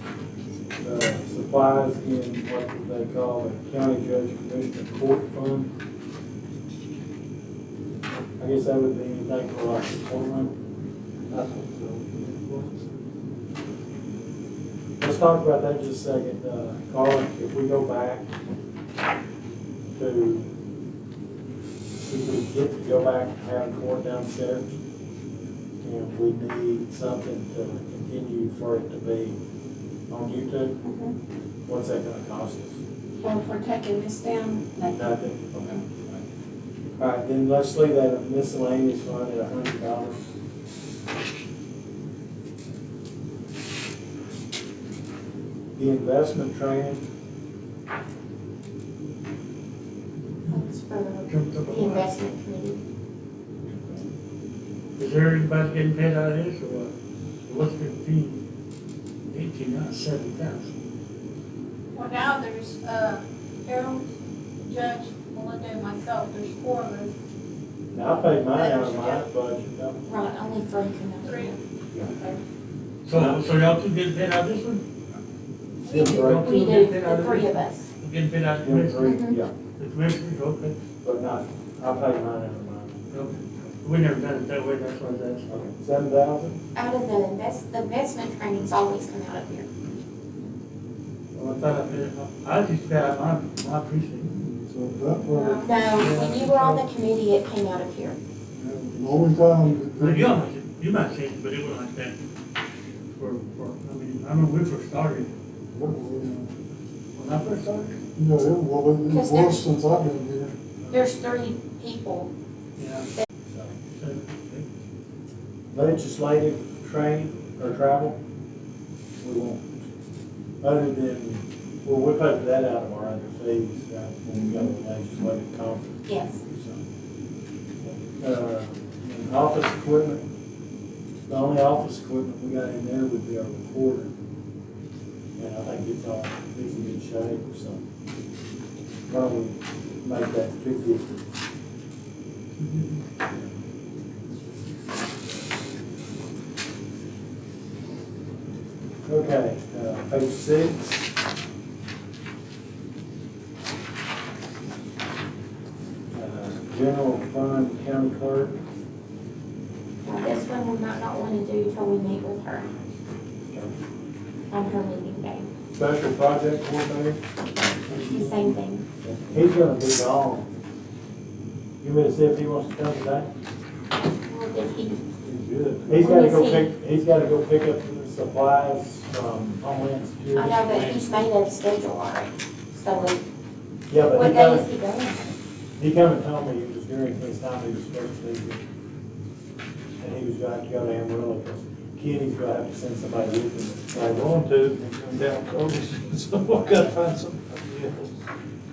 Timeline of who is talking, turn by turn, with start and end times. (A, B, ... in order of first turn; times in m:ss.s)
0:00.8-0:05.7 A
0:08.4-0:10.5 A
0:11.3-0:12.8 B
0:15.0-0:18.2 A
0:20.0-0:20.5 A
0:22.0-0:24.6 A
0:25.8-0:29.4 A
0:30.1-0:30.7 A
0:30.8-0:31.2 C
0:31.6-0:32.8 A
0:33.2-0:35.0 C
0:34.8-0:36.2 A
0:37.0-0:40.3 A
0:45.8-0:47.0 A
0:50.5-0:52.8 C
0:51.2-0:52.1 D
0:55.0-0:56.9 D
0:57.4-0:58.4 D
0:59.3-1:00.7 D
1:01.9-1:04.1 E
1:04.6-1:07.1 E
1:07.9-1:10.0 A
1:08.5-1:09.2 E
1:10.0-1:11.6 C
1:11.2-1:12.4 E
1:13.0-1:14.8 D
1:13.1-1:13.4 A
1:15.8-1:16.2 E
1:15.8-1:16.4 A
1:16.0-1:19.2 D
1:16.2-1:17.9 C
1:18.6-1:19.5 A
1:19.0-1:19.4 C
1:19.8-1:20.8 D
1:21.0-1:23.0 A
1:23.1-1:25.5 D
1:25.5-1:26.6 A
1:26.7-1:29.7 C
1:31.3-1:34.3 D
1:34.2-1:35.7 F
1:35.3-1:38.2 C
1:35.9-1:36.8 D
1:38.6-1:40.4 F
1:38.9-1:42.2 D
1:43.1-1:45.3 D
1:45.7-1:46.5 F
1:47.2-1:48.0 D
1:48.2-1:50.6 F
1:49.1-1:49.7 C
1:50.9-1:52.3 C
1:52.8-1:53.1 D
1:53.5-1:53.7 A
1:54.0-1:54.7 D
1:55.7-1:58.2 A
1:59.2-1:59.8 A
2:00.6-2:06.8 A
2:06.1-2:06.4 C
2:08.0-2:10.2 A
2:11.3-2:14.1 A
2:15.4-2:17.8 A
2:19.1-2:21.2 A
2:29.1-2:31.0 A
2:36.1-2:38.6 A
2:40.0-2:42.7 C
2:44.5-2:45.4 C
2:45.7-2:47.2 A
2:47.9-2:50.5 A
2:47.9-2:48.8 C
2:51.8-2:53.3 A
2:54.0-2:55.0 C
2:55.2-2:56.0 B
2:55.9-3:00.9 A
2:55.9-2:56.7 C
3:00.3-3:03.2 C
3:00.7-3:01.1 B
3:03.9-3:04.7 A
3:04.1-3:05.3 C
3:05.8-3:08.6 A
3:10.0-3:14.4 A
3:14.0-3:18.2 B
3:16.5-3:17.0 A